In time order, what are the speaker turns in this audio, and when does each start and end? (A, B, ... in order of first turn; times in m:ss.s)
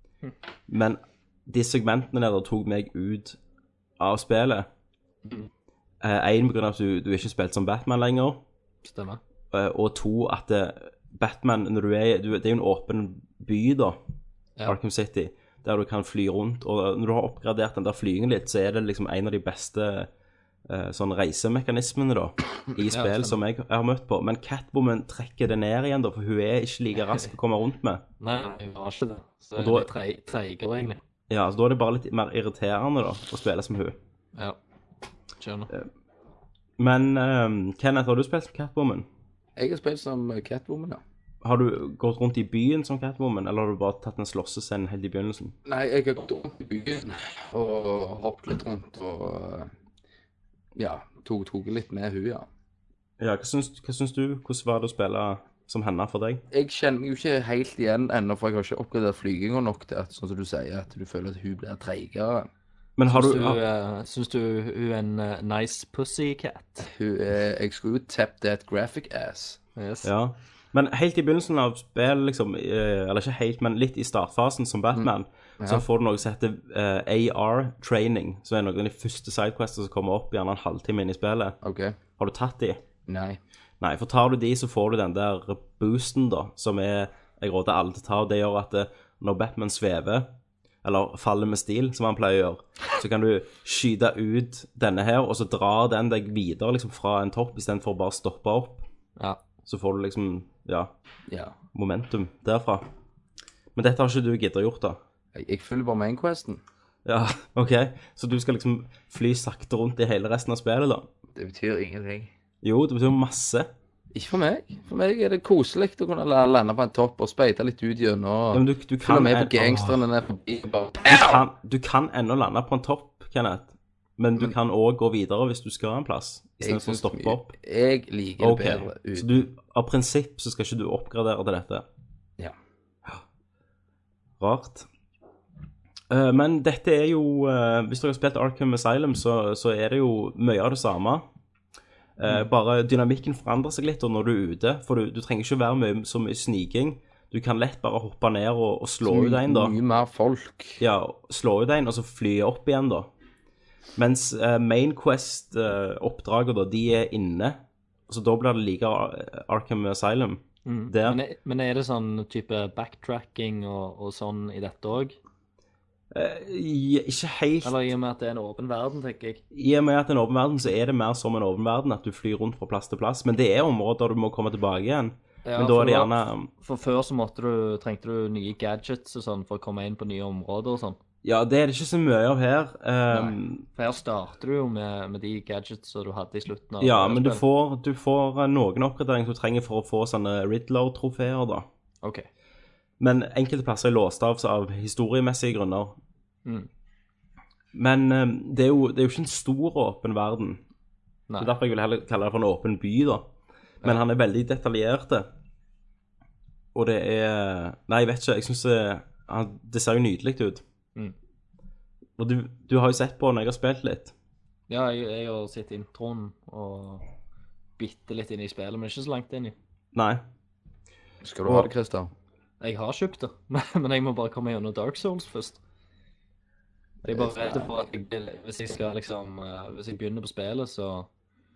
0:00.7-0:03.4 A
0:04.0-0:04.7 A
0:05.2-0:05.5 B
0:06.0-0:08.4 A
0:08.8-0:09.2 B
0:09.5-0:14.0 A
0:14.7-0:20.1 A
0:20.7-0:28.0 A
0:22.9-0:23.4 B
0:28.2-0:31.0 B
0:29.6-0:29.9 A
0:31.3-0:34.0 A
0:35.4-0:35.7 B
0:36.8-0:39.1 A
0:39.6-0:41.0 C
0:41.4-0:45.5 A
0:45.7-0:49.7 C
0:50.8-0:52.5 C
0:53.2-0:56.4 A
0:56.5-1:02.5 C
1:03.0-1:03.6 A
1:03.1-1:06.9 B
1:06.8-1:09.6 C
1:09.8-1:10.1 B
1:10.0-1:21.6 A
1:21.6-1:22.0 C
1:22.2-1:22.8 A
1:23.1-1:23.4 C
1:23.8-1:30.3 A
1:30.8-1:38.8 A
1:39.7-1:40.9 A
1:41.3-1:41.6 C
1:41.7-1:42.9 A
1:43.8-1:45.0 A
1:45.4-1:46.6 C
1:47.0-1:51.1 A
1:51.4-1:52.3 C
1:52.6-1:53.7 A
1:54.1-2:01.4 C
1:58.5-2:00.0 A
2:01.1-2:07.5 A
2:06.6-2:09.3 C
2:08.4-2:11.8 A
2:14.4-2:14.9 A
2:16.1-2:21.2 A
2:22.2-2:29.8 A
2:29.0-2:30.8 C
2:30.8-2:33.1 A
2:34.0-2:41.2 A
2:40.7-2:45.2 B
2:46.1-2:47.8 A
2:47.6-2:49.4 B
2:49.5-2:56.5 A
2:55.4-3:01.0 B
3:01.2-3:03.6 A
3:03.1-3:07.4 B
3:06.8-3:11.7 A
3:13.0-3:16.0 A
3:17.7-3:20.6 A
3:21.4-3:23.3 A
3:23.8-3:25.3 A
3:26.7-3:30.6 A
3:32.2-3:34.1 A
3:34.7-3:37.0 B
3:37.8-3:39.6 B
3:39.9-3:40.2 A
3:41.2-3:42.1 C
3:42.6-3:45.6 B
3:47.0-3:47.7 C
3:47.1-3:51.1 B